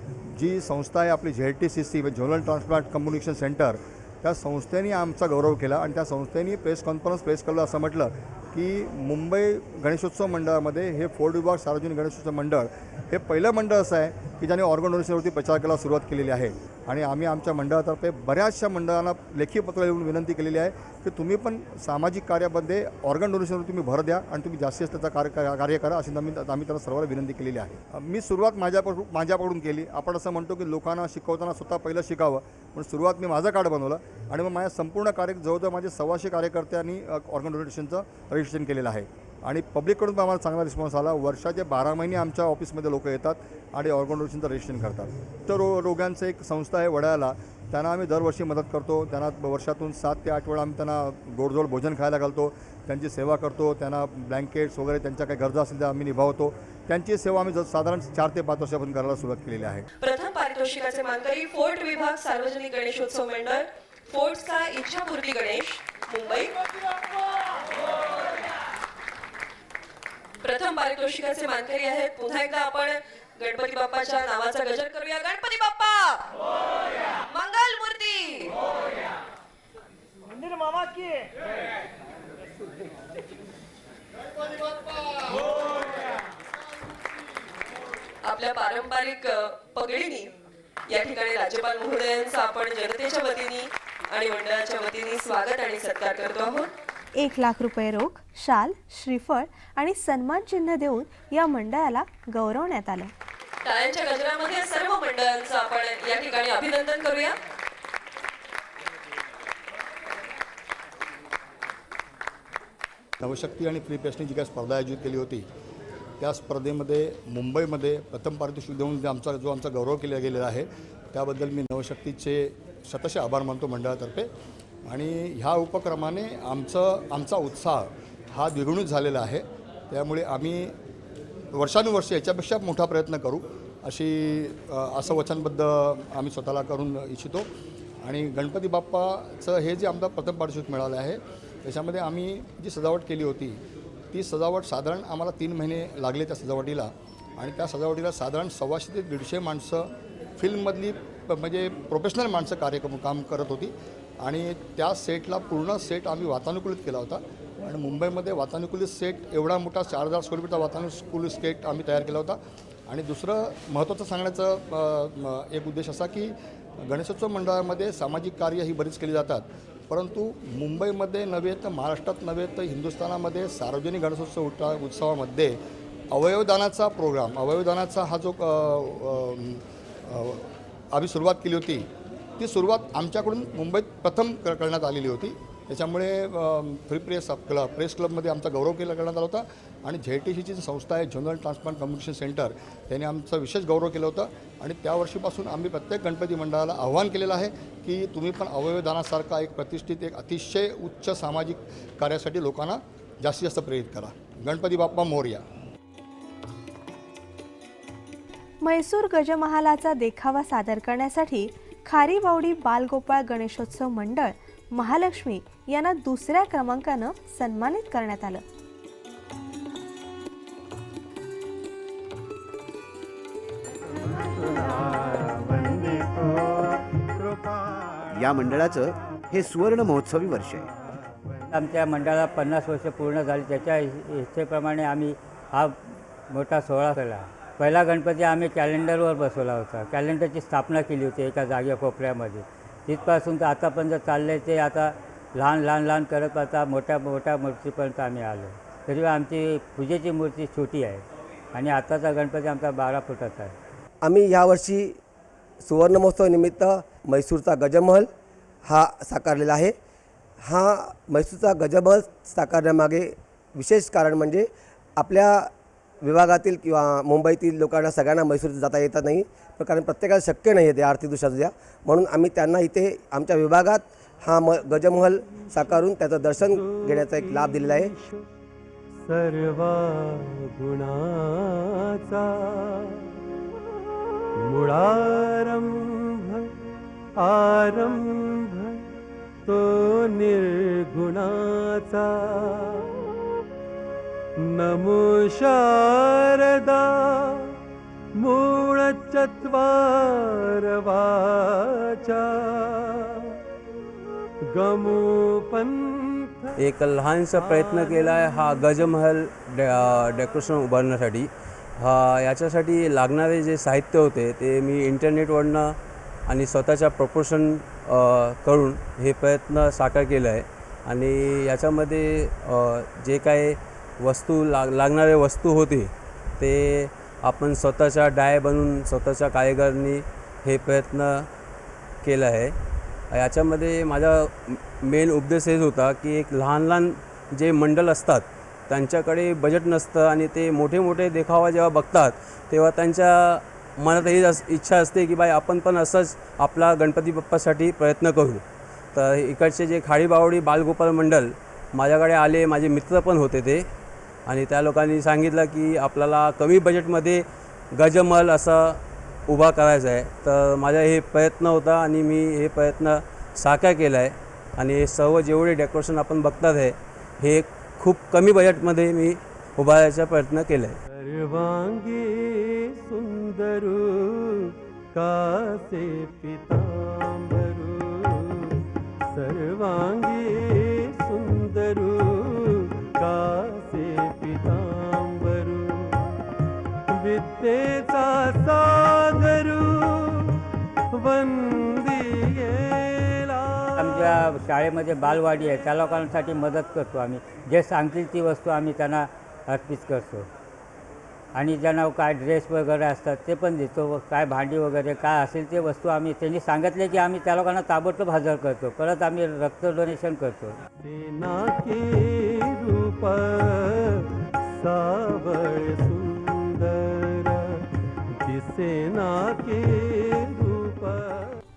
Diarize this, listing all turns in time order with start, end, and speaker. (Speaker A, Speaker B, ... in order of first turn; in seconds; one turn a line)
Speaker A: 0.2-59.9
Speaker B: 60.0-66.5
Speaker B: 70.4-76.3
Speaker B: 77.3-78.5
Speaker B: 88.2-90.3
Speaker B: 90.9-96.7
Speaker C: 97.1-103.1
Speaker B: 103.6-107.3
Speaker A: 113.2-115.5
Speaker A: 116.2-124.3
Speaker A: 124.8-130.7
Speaker A: 131.5-137.5
Speaker A: 138.0-175.6
Speaker A: 176.1-181.9
Speaker A: 182.4-205.4
Speaker C: 208.6-218.4
Speaker D: 225.7-226.4
Speaker D: 228.1-230.7
Speaker E: 231.5-253.5
Speaker F: 254.0-255.0
Speaker F: 255.6-258.1
Speaker F: 258.6-259.8
Speaker F: 260.4-265.5
Speaker F: 266.0-277.9
Speaker G: 276.4-278.2
Speaker G: 279.0-283.1
Speaker G: 284.4-286.5
Speaker G: 287.2-288.8
Speaker G: 289.4-292.9
Speaker G: 294.4-297.6
Speaker G: 298.2-303.4
Speaker G: 304.5-306.6
Speaker H: 306.6-315.8
Speaker G: 307.3-308.6
Speaker H: 316.3-331.3
Speaker H: 332.0-332.5
Speaker H: 333.1-353.7
Speaker H: 354.2-370.8
Speaker G: 370.9-386.1
Speaker G: 386.9-390.4
Speaker G: 390.9-394.2
Speaker E: 393.8-400.3
Speaker E: 401.3-410.6
Speaker G: 410.8-417.6
Speaker G: 418.2-421.4